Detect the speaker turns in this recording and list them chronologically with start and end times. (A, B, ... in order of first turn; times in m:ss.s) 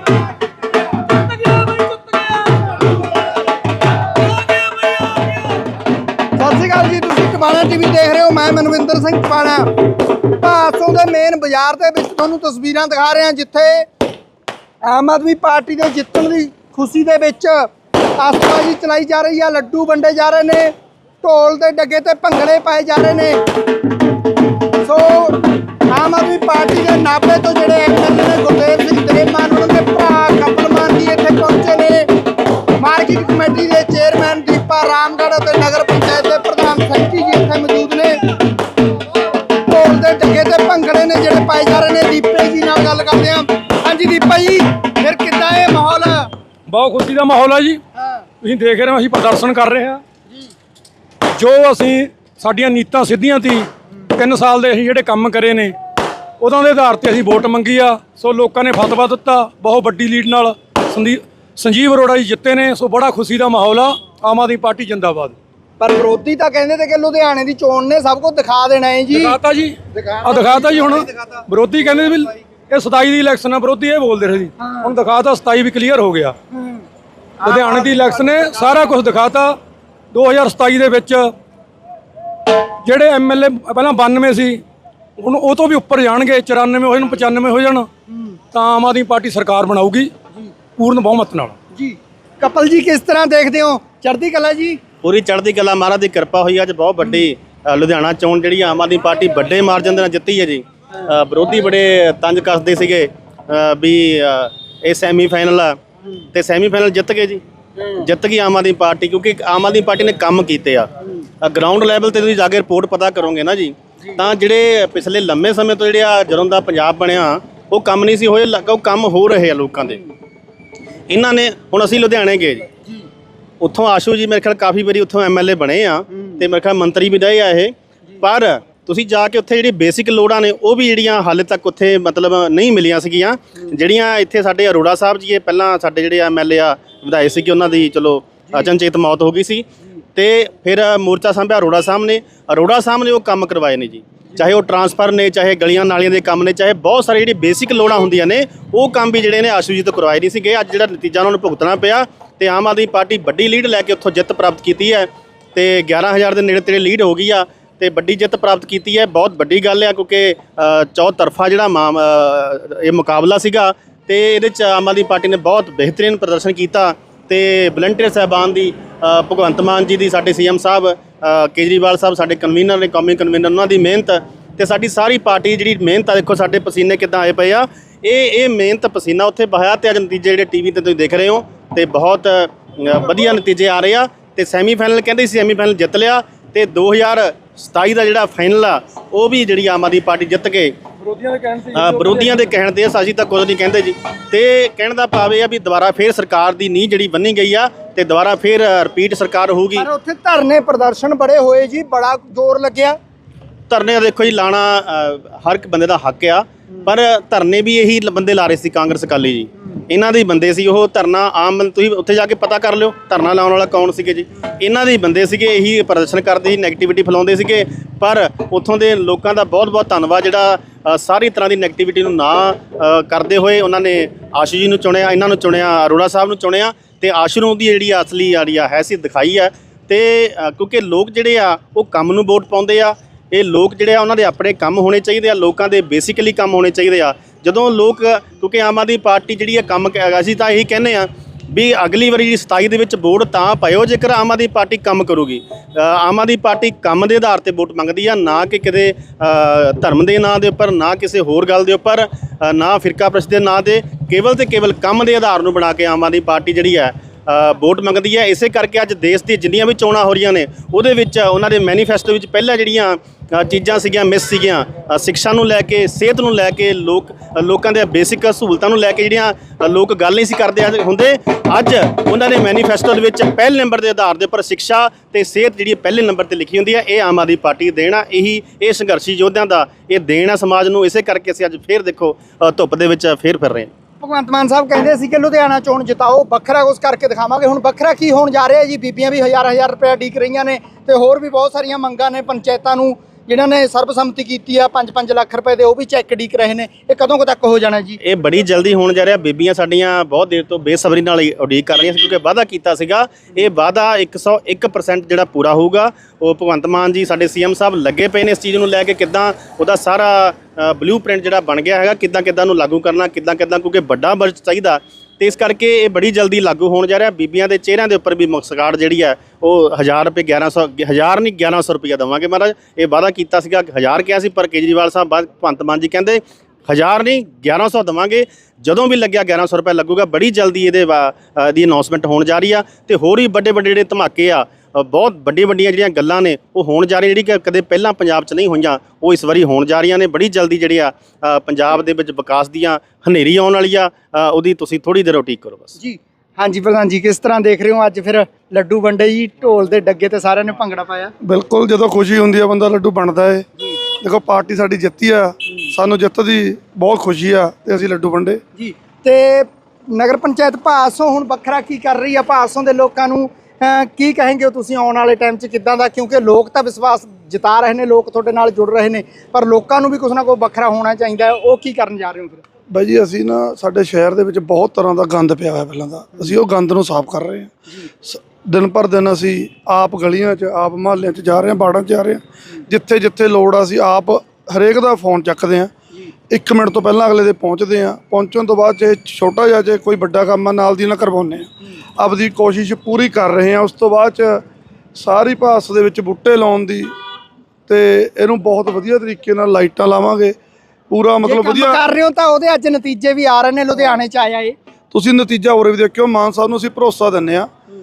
0:01.3-0:02.7 A
0:04.4-0:05.3 A
0:06.4-0:13.8 A
0:14.8-0:17.6 A
0:18.2-0:23.4 A
0:24.8-0:32.1 A
0:32.8-0:38.2 A
0:39.6-0:46.3 A
0:46.7-0:47.8 B
0:48.4-0:50.0 B
0:51.4-0:55.7 B
0:56.4-1:05.3 B
1:05.8-1:09.4 A
1:09.2-1:16.3 B
1:09.9-1:11.4 A
1:14.6-1:14.9 A
1:16.5-1:16.8 A
1:17.4-1:18.7 A
1:17.5-1:19.5 B
1:20.1-1:21.2 B
1:22.8-1:24.6 B
1:25.2-1:27.9 B
1:28.1-1:28.4 A
1:28.5-1:30.1 B
1:30.8-1:31.5 B
1:31.7-1:34.8 A
1:35.0-1:45.8 C
1:46.3-1:47.4 C
1:48.0-1:50.9 C
1:51.4-2:00.0 C
2:01.1-2:02.7 C
2:03.6-3:10.8 C
3:11.0-3:12.5 B
3:11.7-3:19.9 C
3:19.8-3:23.0 A
3:23.7-4:43.7 C
4:44.0-4:58.0 A
4:58.0-5:45.8 C
5:45.8-5:51.1 A
5:51.2-5:53.4 D
5:54.0-5:58.4 D
5:58.6-6:12.4 A
6:12.7-6:17.5 D
6:18.0-6:25.7 D
6:26.3-6:34.4 D
6:35.0-6:36.9 D
6:37.7-6:40.4 D
6:40.9-6:41.8 D
6:41.2-6:44.5 A
6:44.9-6:47.5 D